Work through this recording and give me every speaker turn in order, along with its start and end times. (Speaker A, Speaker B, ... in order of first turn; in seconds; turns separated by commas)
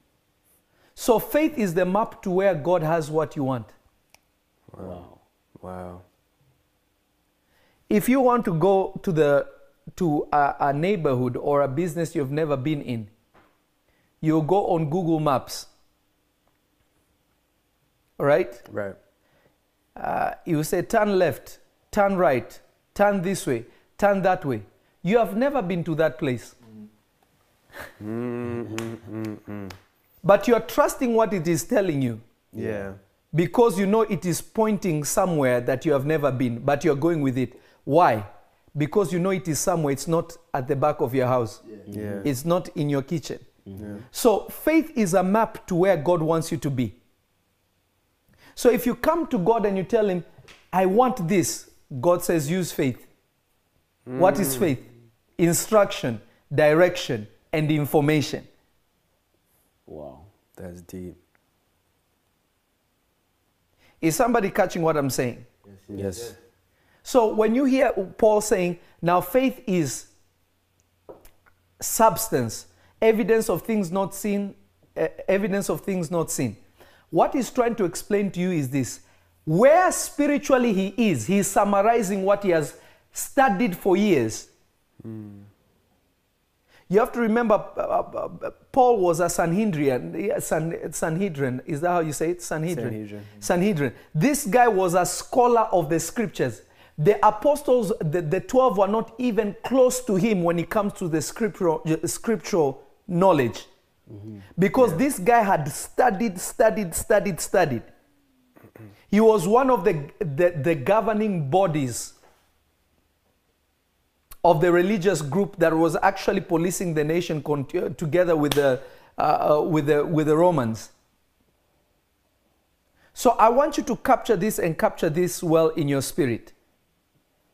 Speaker A: 0.9-3.7, Speaker B: 4.7-5.0, Speaker C: 4.8-5.2, Speaker B: 5.6-6.0, Speaker A: 7.9-13.1, Speaker A: 14.2-15.7, Speaker A: 18.2-18.6, Speaker B: 18.7-18.9, Speaker A: 19.9-26.5, Speaker B: 28.0-29.7, Speaker A: 30.2-32.2, Speaker B: 32.5-33.0, Speaker A: 33.3-41.6, Speaker C: 41.9-42.2, Speaker B: 41.9-42.3, Speaker A: 42.2-43.4, Speaker C: 43.7-44.0, Speaker B: 43.8-44.0, Speaker A: 44.1-47.0, Speaker A: 48.5-53.1, Speaker B: 54.1-54.7, Speaker A: 54.2-54.8, Speaker A: 55.4-58.5, Speaker C: 59.9-60.3, Speaker B: 60.6-61.2, Speaker A: 64.0-65.5, Speaker B: 65.9-66.4, Speaker A: 67.0-70.1, Speaker A: 71.8-76.6, Speaker A: 77.1-84.5, Speaker B: 85.0-85.5, Speaker A: 86.9-103.7, Speaker B: 92.7-93.3, Speaker C: 104.1-104.4, Speaker A: 104.5-107.9, Speaker A: 109.1-112.1, Speaker A: 114.4-120.9, Speaker A: 123.1-126.5